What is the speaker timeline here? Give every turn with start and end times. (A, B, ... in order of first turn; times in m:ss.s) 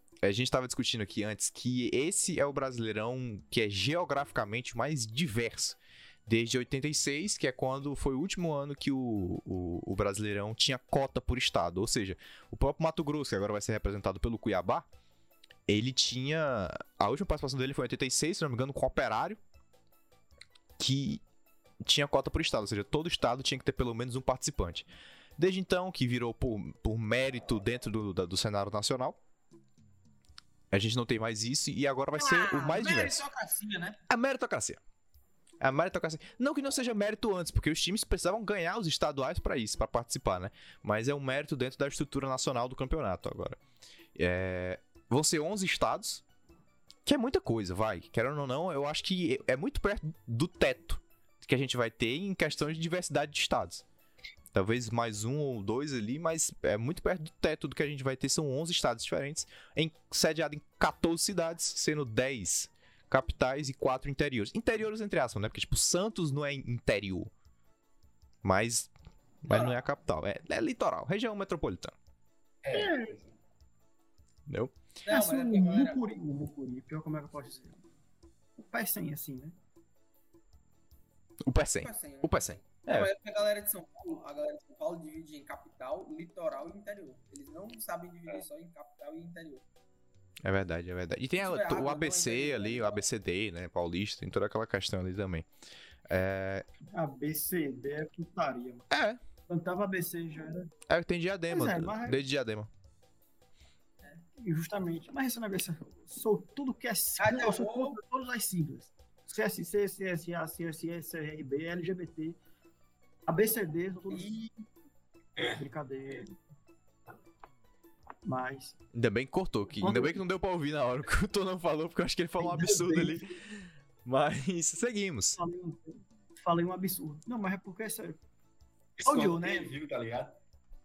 0:00.2-0:14.9 A
0:15.7-0:19.4 A
0:20.8-0:21.2 A
0:21.8-0:29.2 A
0:30.7-0:33.2 A
0:32.2-0:33.9 B
0:34.1-0:34.8 A
0:35.6-0:43.6 A
0:44.2-0:46.2 A
0:47.0-0:53.8 A
0:54.5-1:07.3 A
1:08.4-1:08.9 A
1:09.4-1:12.0 A
1:12.6-1:13.3 C
1:12.7-1:13.1 D
1:14.5-1:14.8 A
1:15.1-1:16.0 B
1:15.1-1:17.8 D
1:18.6-1:19.5 D
1:21.5-1:23.1 A
1:21.8-1:29.6 B
1:30.4-1:35.5 A
1:31.4-1:33.0 B
1:36.1-1:36.6 A
1:36.9-1:38.9 D
1:38.9-1:39.2 A
1:39.5-1:40.7 D
1:40.9-1:42.7 A
1:41.5-1:42.2 D
1:44.4-1:52.4 D
1:47.2-1:47.9 B
1:53.3-1:54.5 D
1:55.4-1:56.3 D
1:58.2-1:58.8 D
1:58.9-2:05.4 A
1:59.8-2:00.2 D
2:02.4-2:03.3 D
2:05.4-2:08.2 D
2:09.0-2:10.4 C
2:09.0-2:09.7 D